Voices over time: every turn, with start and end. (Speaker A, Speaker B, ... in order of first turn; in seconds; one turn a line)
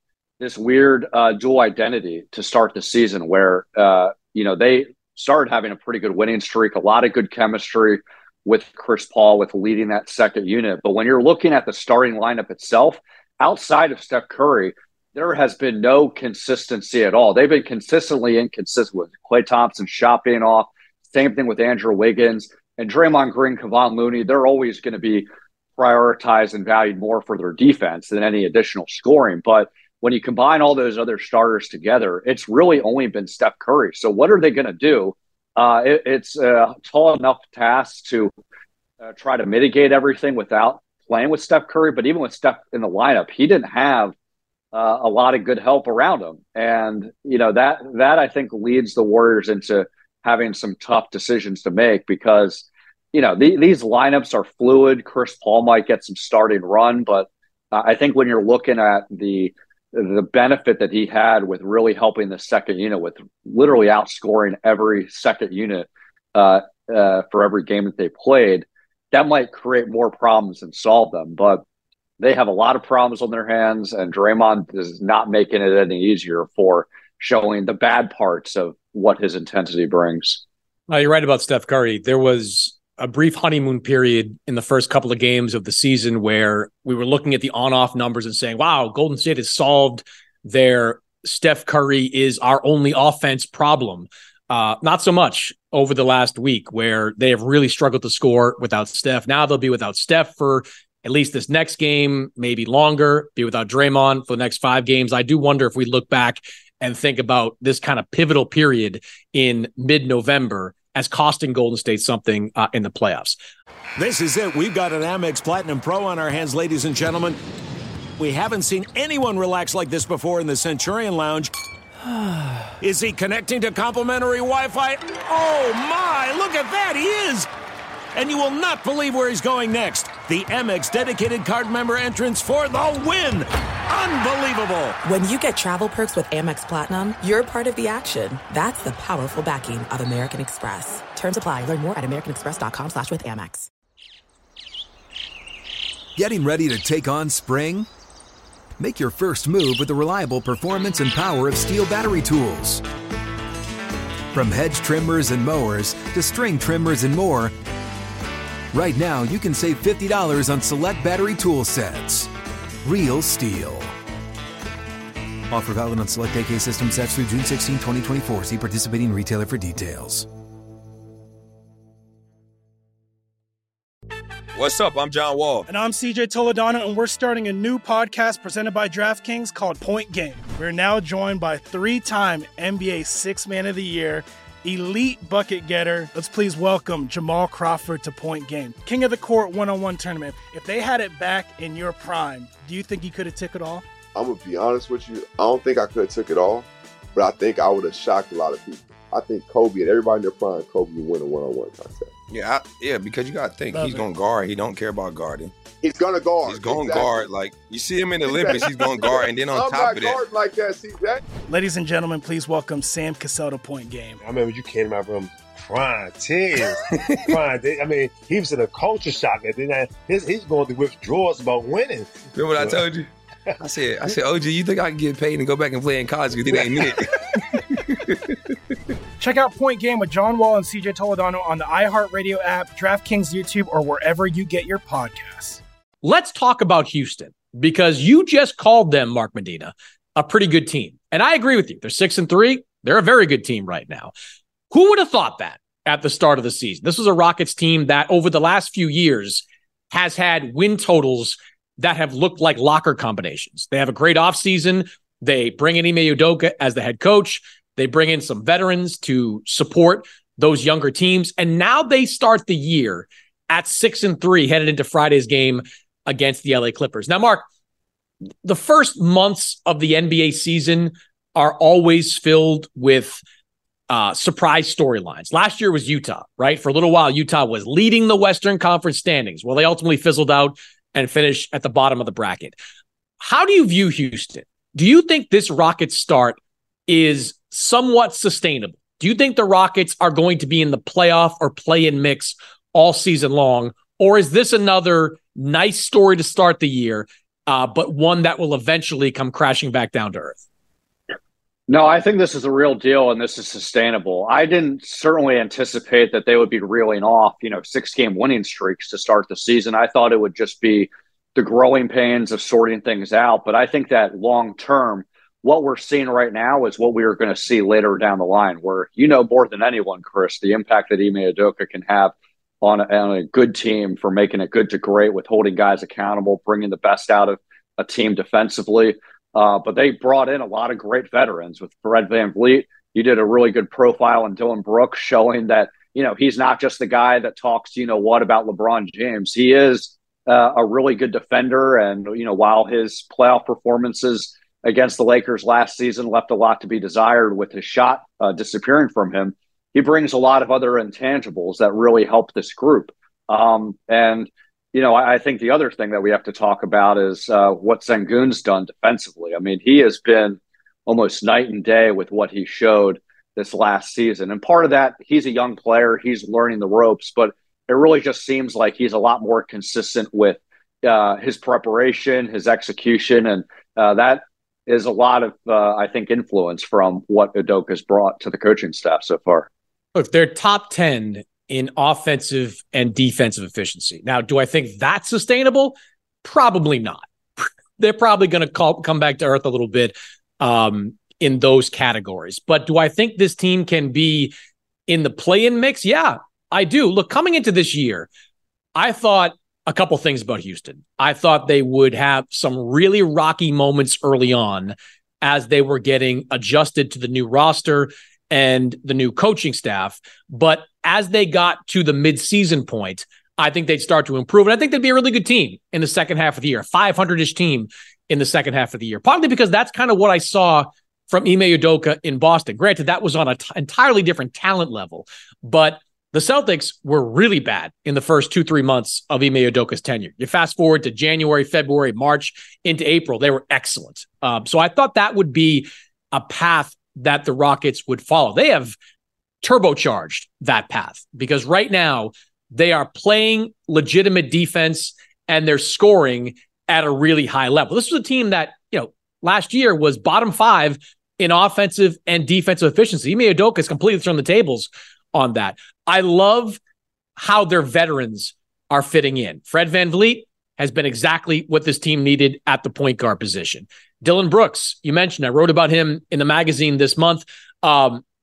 Speaker A: 0.4-38.3
Speaker A: 39.1-44.1
Speaker A: 44.7-71.6
Speaker A: 72.2-80.4
Speaker B: 80.9-113.4
Speaker C: 114.0-117.4
Speaker C: 118.2-121.5
Speaker C: 122.8-127.5
Speaker C: 128.1-135.0
Speaker D: 135.0-143.7
Speaker E: 146.2-147.9
Speaker E: 148.8-152.8
Speaker E: 154.3-157.5
Speaker E: 158.7-162.3
Speaker E: 162.8-163.9
Speaker E: 165.5-170.3
Speaker F: 174.5-175.7
Speaker G: 175.7-193.8
Speaker H: 194.1-202.1
Speaker F: 202.3-205.5
Speaker H: 205.8-207.3
Speaker F: 206.4-210.2
Speaker H: 208.2-211.2
Speaker G: 211.5-214.2
Speaker I: 214.2-222.8
Speaker F: 222.3-223.1
Speaker F: 223.6-227.1
Speaker G: 229.2-235.6
Speaker B: 236.0-244.1
Speaker B: 244.7-267.4
Speaker B: 268.4-273.2
Speaker B: 273.9-282.5
Speaker B: 283.2-300.4
Speaker A: 301.7-379.5
Speaker B: 379.9-394.3
Speaker B: 394.9-398.1
Speaker B: 398.8-438.8
Speaker B: 439.4-456.6
Speaker B: 457.2-468.0